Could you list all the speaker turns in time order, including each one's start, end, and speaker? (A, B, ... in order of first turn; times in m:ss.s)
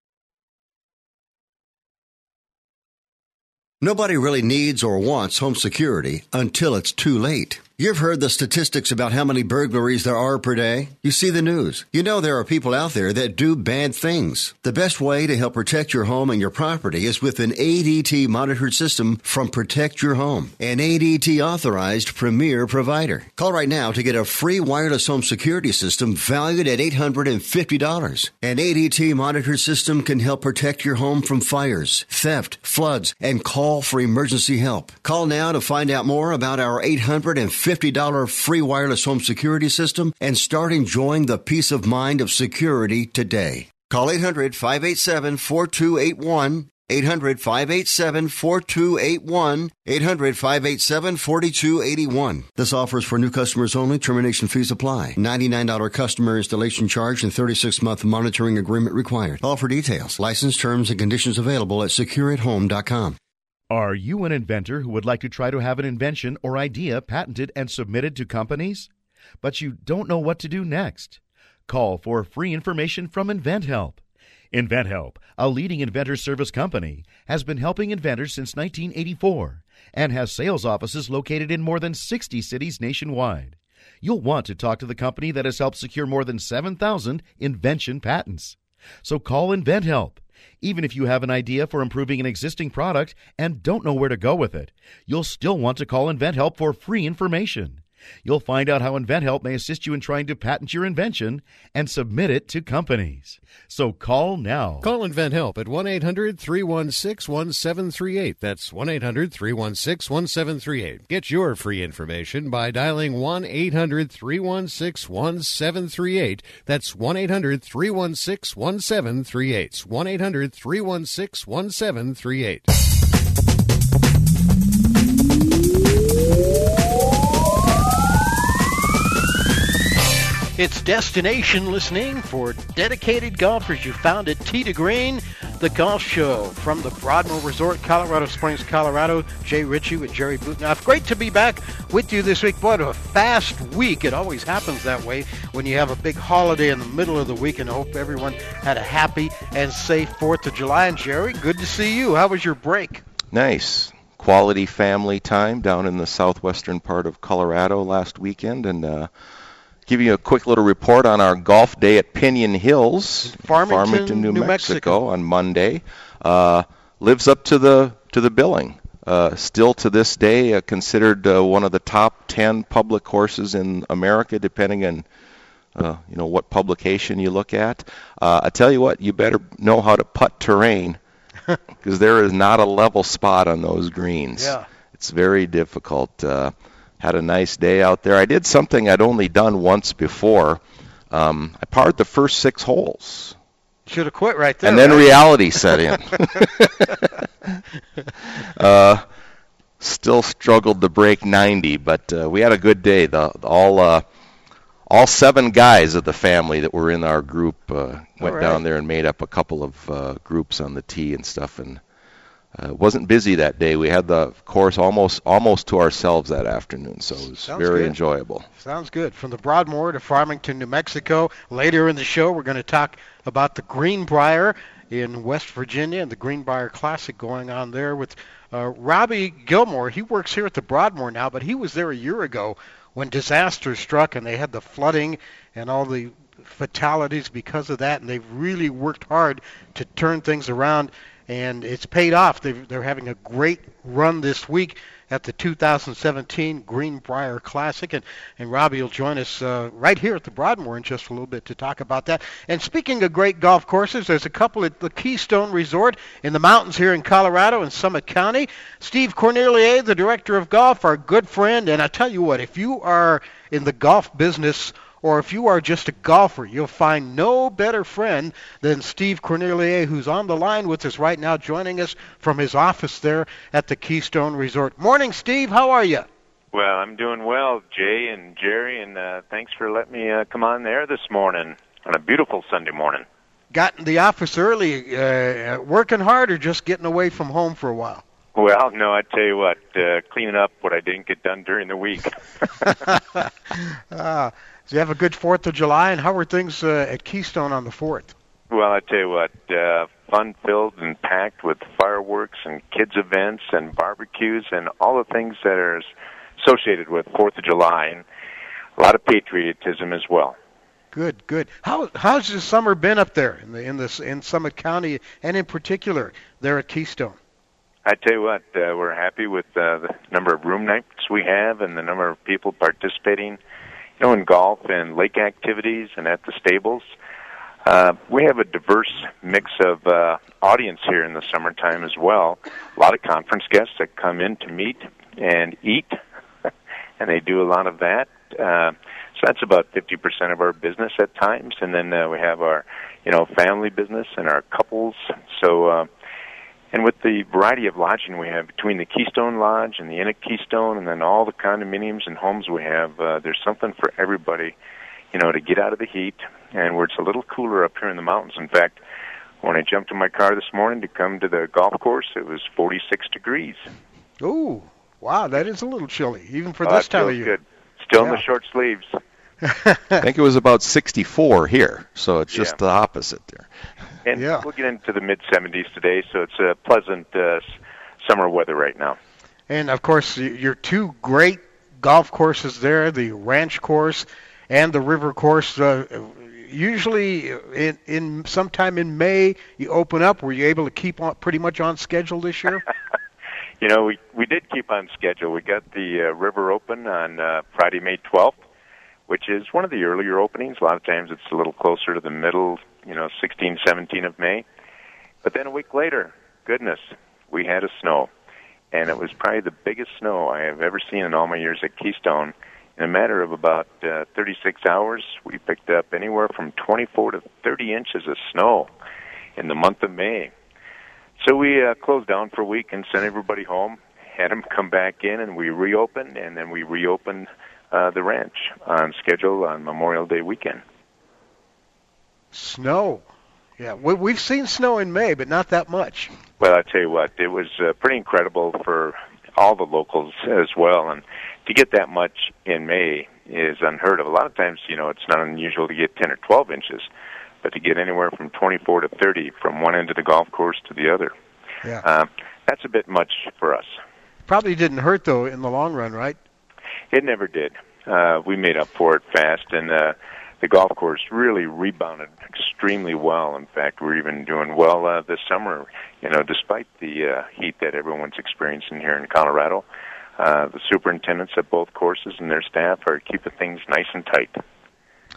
0:03.8-1:03.2 A
1:03.7-1:08.9 B
1:09.4-1:14.0 B
1:14.5-1:44.9 B
1:44.8-2:02.7 C
2:10.6-2:33.0 D
2:33.3-2:39.1 E
2:39.9-2:55.0 E
2:43.2-2:45.0 D
2:55.7-3:01.0 E
3:01.8-3:13.3 E
3:04.4-3:04.6 D
3:13.9-3:15.7 D
3:14.6-3:16.9 E
3:18.4-3:19.0 E
3:19.8-3:24.0 E
3:24.9-3:31.8 E
3:28.2-3:28.6 D
3:32.5-3:38.4 E
3:37.4-3:37.9 D
3:38.6-4:36.1 D
4:36.5-4:43.0 F
4:43.5-4:48.0 D
4:48.3-4:52.7 F
4:53.5-4:58.1 D
4:58.5-5:08.0 F
5:08.8-5:10.4 F
5:10.9-5:17.2 D
5:17.8-5:23.4 F
5:24.0-5:26.8 F
5:27.6-5:36.0 F
5:37.0-5:45.9 F
5:46.7-5:54.5 F
5:55.1-5:58.8 F
5:59.4-6:03.6 F
6:04.2-6:07.3 D
6:06.6-6:09.0 F
6:09.4-6:10.0 D
6:10.0-6:13.5 E
6:12.3-6:12.6 F
6:14.0-6:17.5 F
6:14.1-6:14.4 D
6:18.0-6:19.0 F
6:19.5-6:32.6 D
6:33.6-6:38.4 F
6:39.1-6:44.4 F
6:45.2-6:48.1 F
6:48.7-6:58.7 F
6:59.4-7:00.3 F
7:01.2-7:10.6 F
7:12.3-7:13.0 D
7:13.6-7:16.1 D
7:16.4-7:26.9 F
7:27.4-7:31.1 F
7:31.8-7:33.7 F
7:34.3-7:36.2 D
7:36.9-7:49.6 F
7:50.2-7:54.4 F